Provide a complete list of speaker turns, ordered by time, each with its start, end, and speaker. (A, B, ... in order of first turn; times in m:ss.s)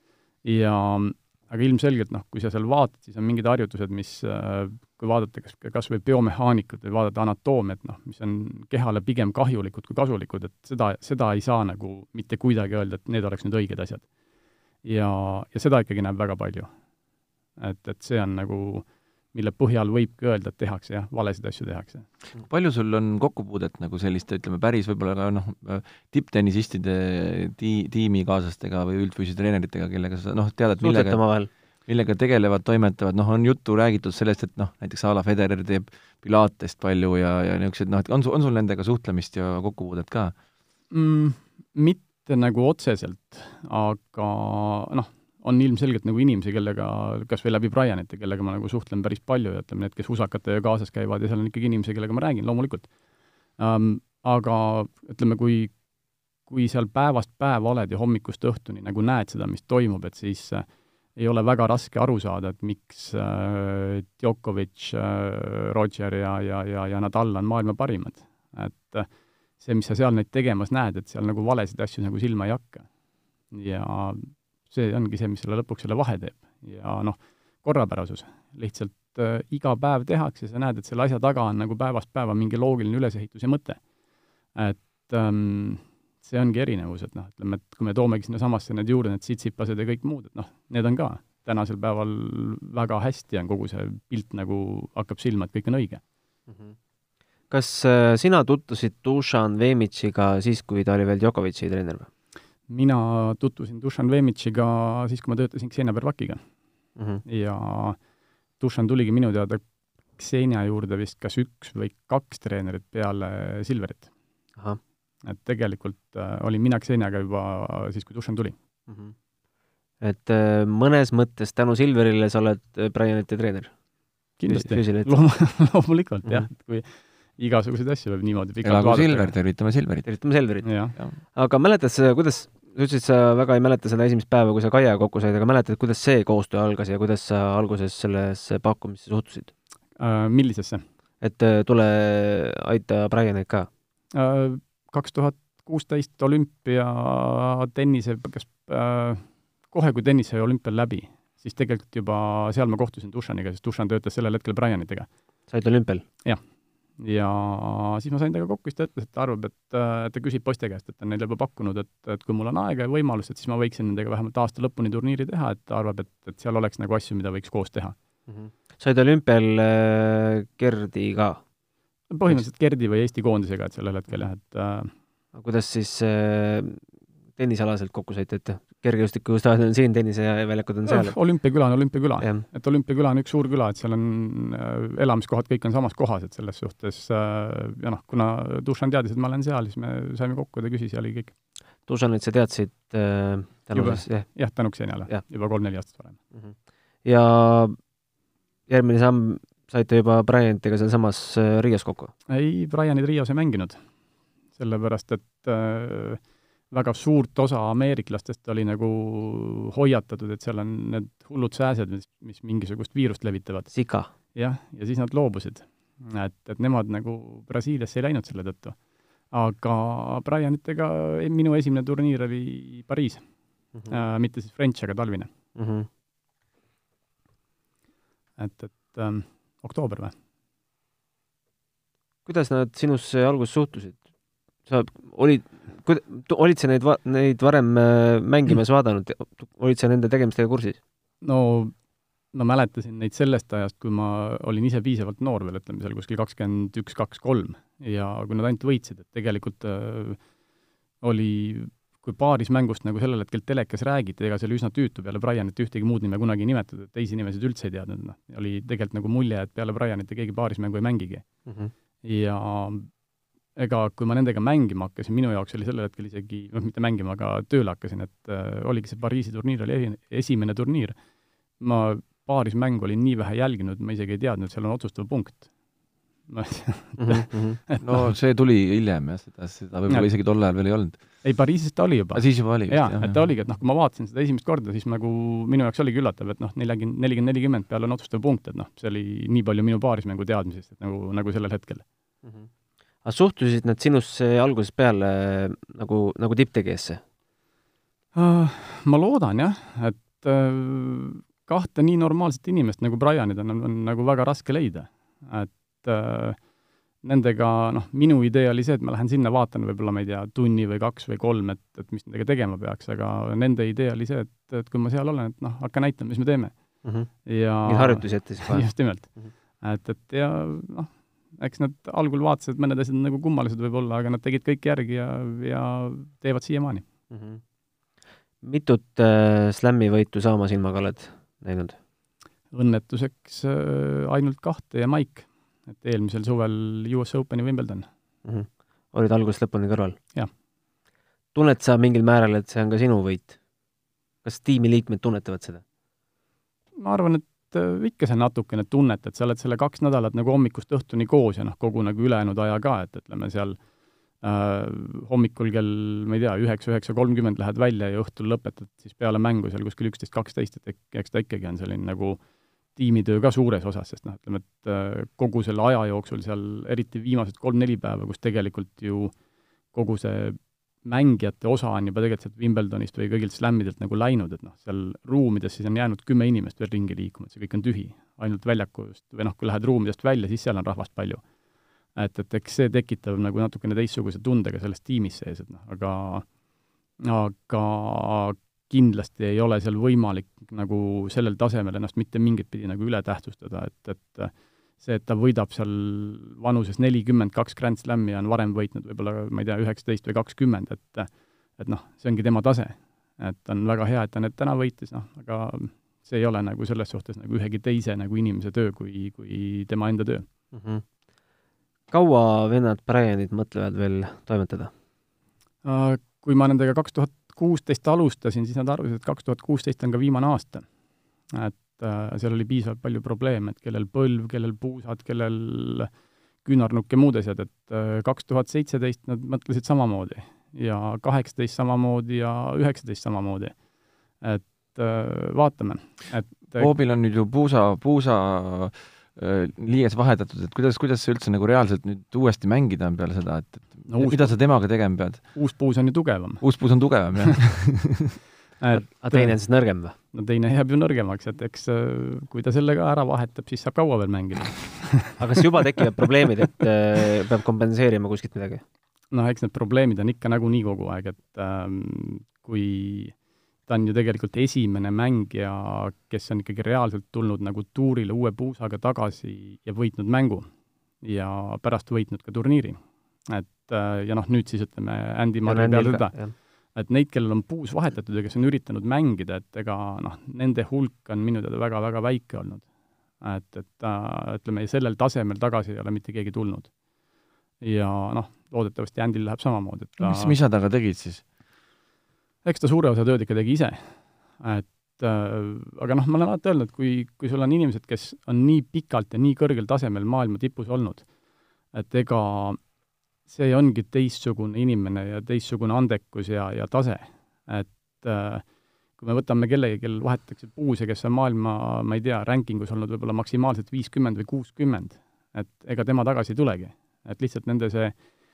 0:00.4-0:14.1 A
0:14.8-0:16.7 A
0:17.6-0:22.1 A
0:22.4-0:31.2 B
0:30.8-0:31.5 C
0:31.9-0:40.3 B
0:40.9-0:52.9 A
0:53.6-0:55.7 A
0:56.5-1:12.9 A
1:13.5-1:23.8 A
1:24.6-1:36.0 A
1:36.5-1:36.8 C
1:37.5-1:42.1 C
1:42.7-1:46.4 A
1:47.0-1:47.2 C
1:47.2-1:48.0 A
1:48.6-1:49.6 A
1:50.2-1:54.1 A
1:55.2-1:58.6 A
1:58.9-1:59.1 C
2:00.0-2:03.7 C
2:04.4-2:09.3 A
2:04.5-2:05.2 C
2:08.6-2:10.1 B
2:10.0-2:19.5 C
2:10.6-2:11.0 A
2:20.0-2:20.8 A
2:21.2-2:23.7 C
2:24.1-2:35.1 A
2:35.5-2:36.0 C
2:37.0-2:48.0 A
2:48.3-2:51.4 C
2:52.1-2:54.9 A
2:55.3-2:56.8 C
2:57.4-3:01.2 C
3:00.9-3:11.3 A
3:02.2-3:02.4 C
3:11.9-3:14.3 C
3:13.7-3:16.2 A
3:16.3-3:17.8 C
3:18.7-3:22.1 C
3:22.3-3:23.8 A
3:24.6-3:33.7 A
3:33.7-3:34.1 C
3:34.3-3:38.8 A
3:39.3-3:43.2 A
3:43.9-3:45.3 A
3:45.6-3:45.9 C
3:48.4-3:50.1 A
3:52.3-3:54.0 C
3:54.7-4:00.8 C
4:01.2-4:01.7 A
4:02.3-4:10.2 A
4:11.0-4:21.2 A
4:21.5-4:21.7 C
4:22.0-4:22.9 A
4:23.6-4:31.0 A
4:31.6-4:35.5 A
4:36.3-4:38.1 A
4:37.0-4:37.6 C
4:37.8-4:41.0 B
4:41.2-4:51.8 A
4:42.1-4:43.2 B
4:53.0-4:57.0 C
4:58.2-5:06.4 A
5:07.0-5:26.8 A
5:16.8-5:17.1 C
5:17.6-5:19.3 C
5:27.1-5:27.4 C
5:28.4-5:31.8 C
5:32.5-5:37.9 A
5:38.2-5:40.0 C
5:41.3-5:43.4 C
5:44.2-5:45.6 C
5:46.8-5:53.6 A
5:54.2-6:02.2 A
6:02.7-6:09.2 A
6:09.7-6:21.3 A
6:21.9-6:26.3 A
6:27.0-6:50.2 A
6:50.5-6:50.8 C
6:51.9-6:54.7 C
6:55.6-7:00.6 A
7:01.3-7:05.9 A
7:06.4-7:13.6 A
7:14.2-7:16.7 A
7:16.6-7:25.4 B
7:23.9-7:24.5 A
7:25.3-7:26.4 A
7:26.4-7:28.0 B
7:28.6-7:29.4 A
7:28.8-7:30.0 C
7:29.9-7:35.2 A
7:35.2-7:38.6 C
7:39.1-7:50.5 A
7:51.0-8:02.7 A
7:55.5-7:56.3 C
8:03.2-8:06.7 A
8:07.6-8:10.4 A
8:10.0-8:11.2 B
8:12.4-8:21.1 A
8:21.7-8:22.6 A
8:23.3-8:38.0 A